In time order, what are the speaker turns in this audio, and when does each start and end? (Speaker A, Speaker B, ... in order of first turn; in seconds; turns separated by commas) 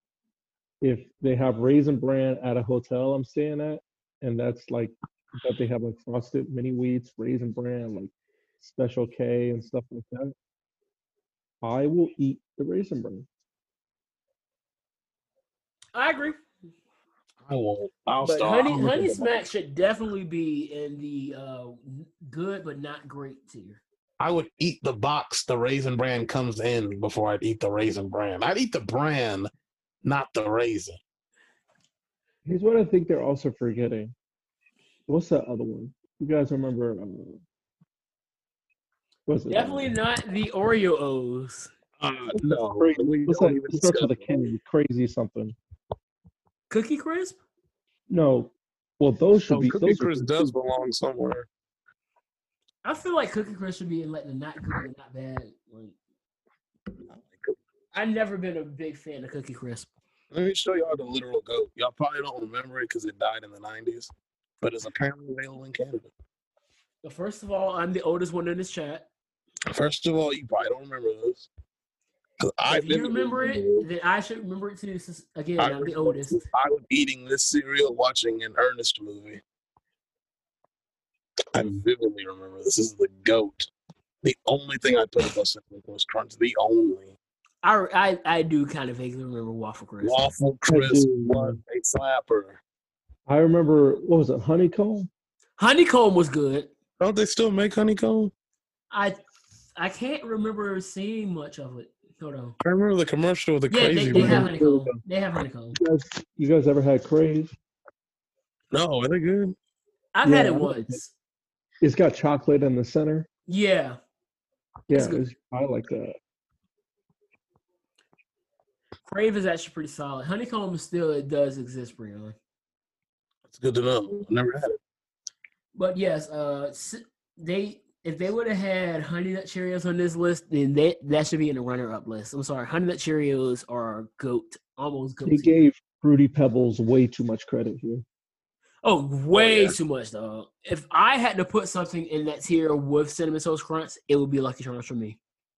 Speaker A: 0.8-10.3, Speaker A: 11.6-13.3, Speaker B: 15.9-16.4, Speaker C: 17.4-19.3, Speaker B: 18.2-23.8, Speaker C: 24.2-29.5, Speaker C: 30.0-31.0, Speaker A: 32.4-34.1, Speaker A: 35.1-37.4, Speaker A: 39.3-39.9, Speaker B: 39.5-41.7, Speaker C: 42.0-44.4, Speaker A: 42.3-45.5, Speaker B: 46.7-47.4, Speaker A: 48.1-50.5, Speaker C: 49.5-51.5, Speaker B: 52.8-55.9, Speaker C: 57.1-57.6, Speaker B: 57.9-59.9, Speaker C: 60.3-64.1, Speaker C: 64.6-66.1, Speaker B: 67.0-69.1, Speaker C: 69.7-71.5, Speaker C: 72.4-73.9, Speaker B: 72.7-76.4, Speaker C: 75.6-79.4, Speaker C: 81.5-83.7, Speaker C: 84.2-87.1, Speaker B: 87.6-90.2, Speaker C: 90.0-92.6, Speaker A: 90.7-91.6, Speaker A: 93.3-95.1, Speaker B: 95.6-96.7, Speaker C: 97.0-98.3, Speaker B: 98.9-99.2, Speaker B: 99.8-102.5, Speaker C: 102.6-104.9, Speaker B: 103.7-105.8, Speaker A: 104.1-104.8, Speaker A: 105.7-107.5, Speaker C: 108.7-109.5, Speaker B: 110.1-111.1, Speaker A: 110.2-111.0, Speaker A: 111.8-113.3, Speaker B: 113.5-114.0, Speaker A: 114.9-116.2, Speaker B: 114.9-115.2, Speaker B: 119.0-122.3, Speaker C: 123.5-124.8, Speaker B: 125.7-135.6, Speaker A: 135.2-138.0, Speaker B: 138.8-145.2, Speaker C: 139.3-139.7